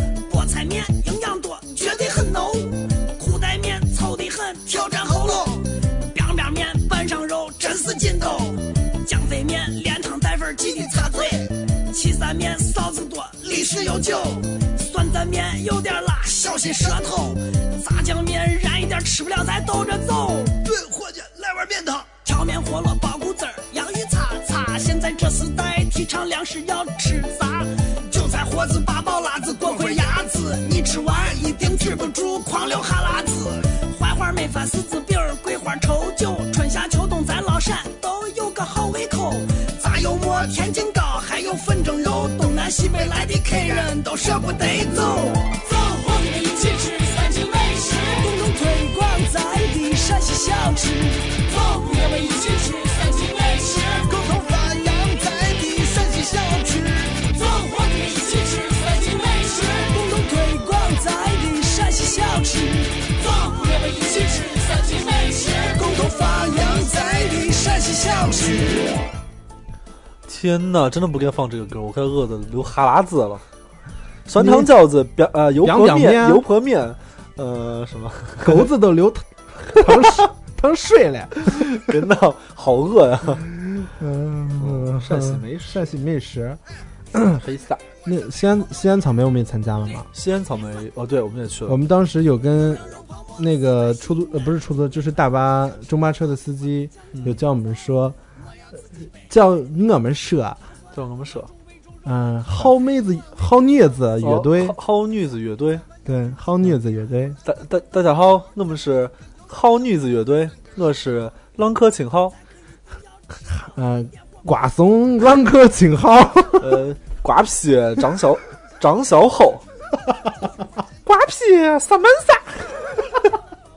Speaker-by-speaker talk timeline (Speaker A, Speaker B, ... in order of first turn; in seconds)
Speaker A: 0.2-20.6, 22.1-54.1, 57.2-68.9
Speaker B: 5.1-5.6, 10.7-11.4, 20.6-22.1, 29.6-30.1, 54.0-57.2, 66.4-67.4
Speaker C: 70.3-73.4, 74.3-78.7, 79.8-80.1, 81.4-83.5, 84.6-85.8, 87.4-87.8, 90.1-91.8, 97.1-97.4, 100.9-101.5, 104.2-105.8, 107.4-112.3, 116.6-119.6, 121.0-123.0
Speaker D: 74.3-74.7, 75.6-76.4, 78.4-81.8, 83.6-86.6, 87.1-87.4, 88.0-90.1, 91.7-98.2, 98.7-100.6, 102.0-104.8, 106.0-107.4, 113.5-116.8